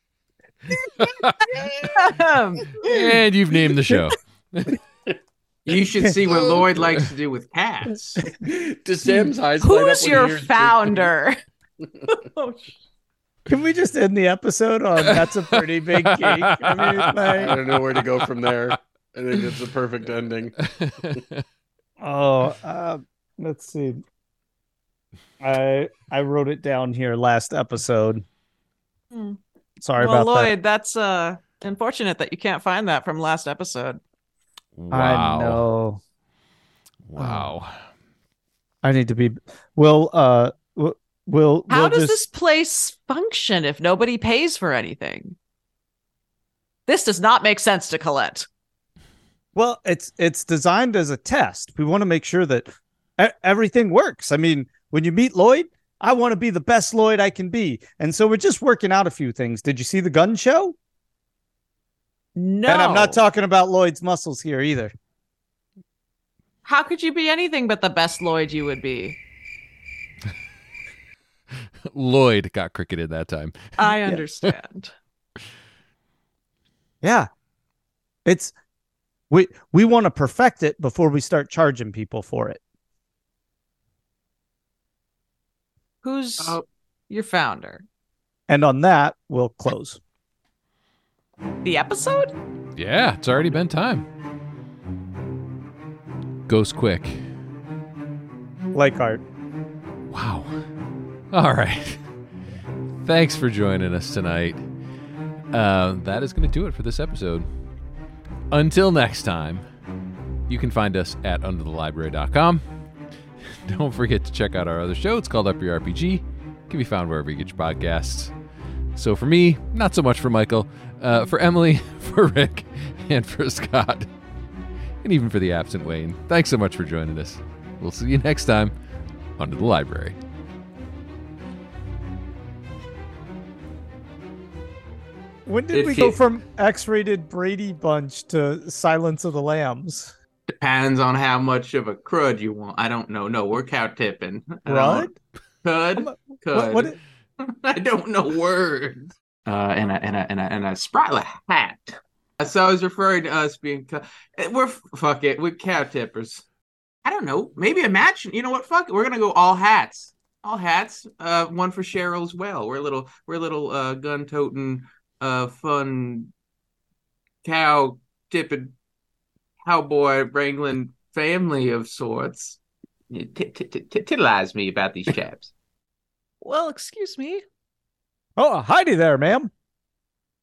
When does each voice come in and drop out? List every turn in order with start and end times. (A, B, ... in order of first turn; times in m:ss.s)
0:01.0-0:01.6 A
0:01.6-0:02.8 B
0:02.8-0:04.8 A
0:05.6-0:08.2 C
0:06.0-0:06.4 D
0:06.3-0:06.6 E
0:08.4-0:11.1 E
0:09.0-0:11.4 B
0:12.1-0:12.8 B
0:13.5-0:17.6 D
0:15.0-0:15.3 A
0:16.0-0:18.8 A
0:17.3-0:20.6 E
0:20.6-0:21.4 A
0:22.0-0:24.0 D
0:25.4-0:28.2 D
0:29.1-0:29.4 B
0:29.8-0:30.5 D
0:30.0-0:34.0 B
0:34.8-0:35.6 A
0:34.9-0:36.0 D
0:37.0-0:37.8 A
0:37.2-0:37.5 D
0:38.8-0:42.2 D
0:41.7-0:45.4 B
0:46.9-0:48.5 B
0:49.6-1:00.8 D
1:02.4-1:03.2 B
1:02.7-1:04.9 D
1:06.6-1:09.2 B
1:11.9-1:14.5 A
1:13.8-1:14.9 B
1:17.0-1:17.3 D
1:18.2-1:18.5 D
1:19.3-1:22.6 D
1:26.0-1:27.8 B
1:28.5-1:30.0 D
1:31.6-1:32.3 B
1:32.8-1:34.0 A
1:36.5-1:37.3 A
1:38.7-1:39.2 D
1:40.1-1:40.5 A
1:41.3-1:42.0 A
1:43.0-1:44.6 A
1:45.5-1:47.5 A
1:48.5-1:49.6 A
1:50.5-1:52.6 A
1:53.5-1:58.3 A
1:59.0-2:04.1 A
2:05.0-2:08.7 A
2:09.4-2:10.2 A
2:15.5-2:20.1 D
2:15.7-2:16.2 C
2:20.5-2:25.1 C
2:24.7-2:25.2 D
2:25.6-2:36.4 C
2:26.0-2:27.0 D
2:37.0-2:46.3 C
2:47.4-2:48.7 C
2:49.6-2:55.5 C
2:56.4-2:57.4 B
2:58.4-2:59.5 D